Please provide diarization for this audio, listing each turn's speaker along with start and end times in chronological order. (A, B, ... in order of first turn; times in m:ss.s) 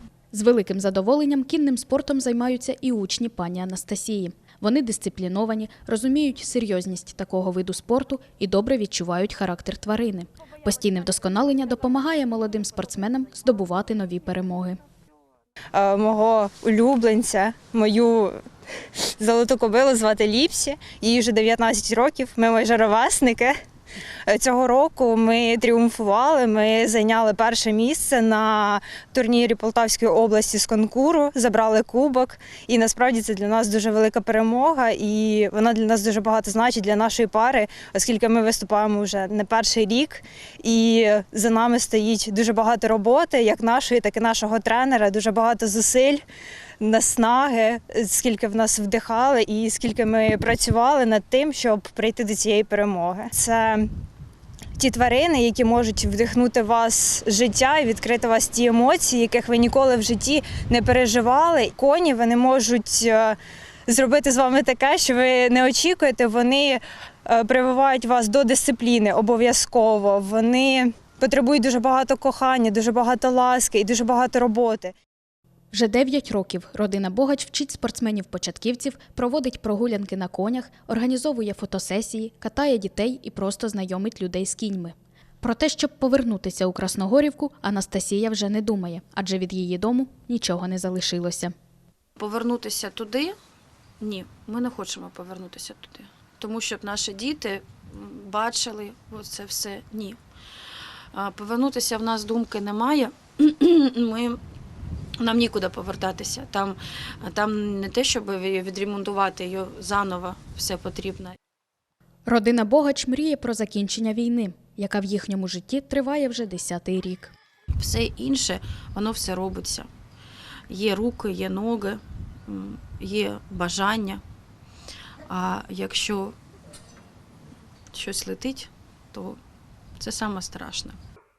0:00.3-0:14.8 A
0:15.8-0:18.4 B
0:19.2-0:23.6 B
0:24.3-0:46.2 B
0:46.8-0:53.9 B
0:54.8-1:14.9 B
1:15.7-1:31.5 A
1:32.2-1:33.4 C
1:34.0-1:40.2 C
1:41.1-1:44.4 C
1:45.2-1:51.4 C
1:52.3-1:57.3 A
1:57.8-1:59.9 C
2:00.7-2:04.2 C
2:05.3-2:06.4 C
2:07.9-2:09.4 C
2:10.0-2:11.0 C